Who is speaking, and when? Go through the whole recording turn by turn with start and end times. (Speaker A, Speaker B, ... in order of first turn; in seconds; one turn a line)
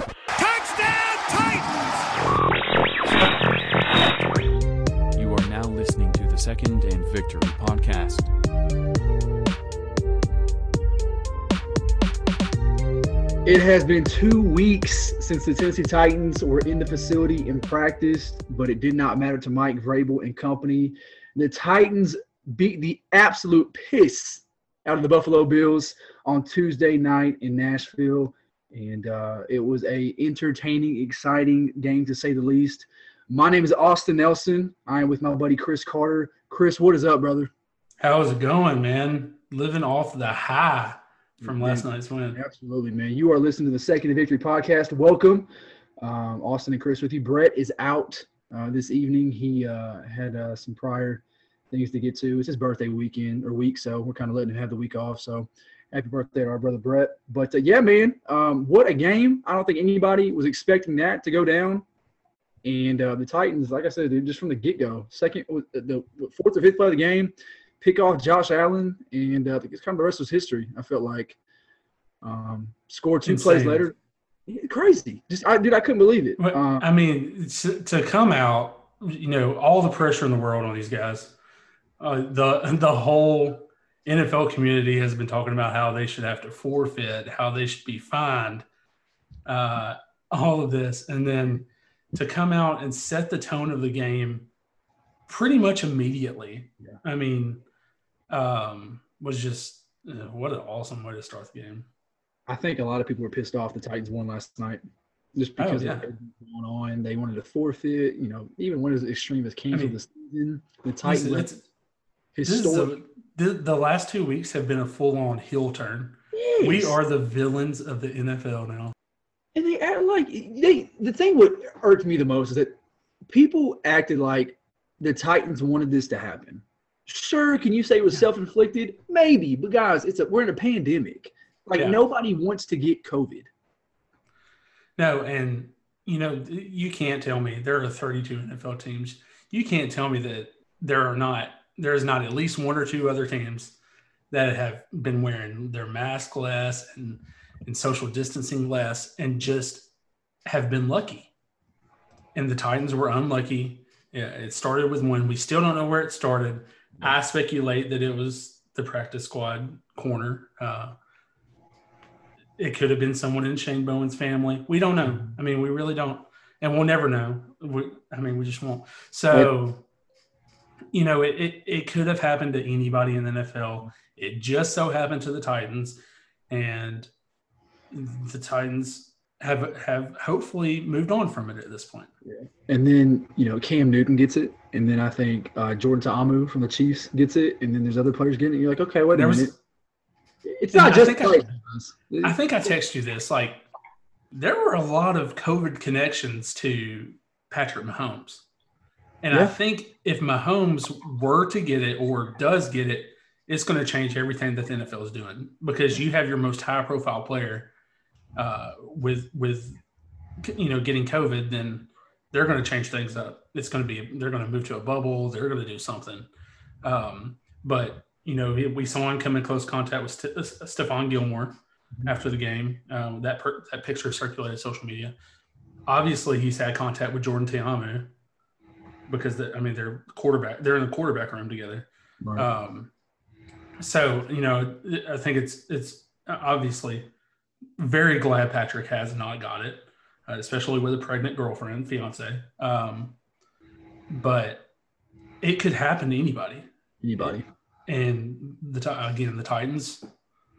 Speaker A: 0.3-2.3
Speaker A: 3.0-3.4
Speaker A: 5.2-8.3
Speaker B: 13.4-37.5
Speaker C: 38.0-42.4
Speaker B: 41.4-45.5
Speaker B: 46.0-61.9
Speaker B: 62.6-71.4
Speaker B: 72.2-74.0
Speaker C: 73.2-73.9
Speaker B: 74.5-76.9
Speaker C: 76.4-81.3
Speaker C: 82.0-88.7
Speaker C: 89.5-94.5
Speaker C: 95.3-97.6
Speaker C: 98.3-101.9
Speaker B: 102.5-104.8
Speaker B: 105.3-111.5
Speaker C: 105.6-106.1
Speaker C: 111.0-111.7
Speaker B: 112.3-112.9
Speaker C: 112.4-118.9
Speaker B: 116.3-117.0
Speaker B: 119.5-122.8
Speaker B: 123.3-133.5
Speaker C: 135.0-143.8
Speaker C: 144.3-149.9
Speaker C: 150.5-151.3
Speaker C: 152.3-160.9
Speaker C: 162.6-169.8
Speaker C: 170.9-177.1
Speaker C: 177.9-182.1
Speaker B: 182.3-189.5
Speaker C: 189.1-189.5
Speaker B: 190.5-192.4
Speaker C: 190.7-191.5
Speaker C: 192.2-193.6
Speaker C: 194.3-198.5
Speaker C: 199.2-207.7
Speaker C: 208.4-209.8
Speaker C: 210.4-216.3
Speaker C: 216.8-225.1
Speaker C: 225.9-228.1
Speaker C: 229.1-232.9
Speaker B: 232.2-232.5
Speaker C: 233.8-237.1
Speaker C: 237.8-243.2
Speaker C: 244.1-244.7
Speaker C: 245.4-247.4
Speaker B: 247.0-247.4
Speaker C: 247.9-250.1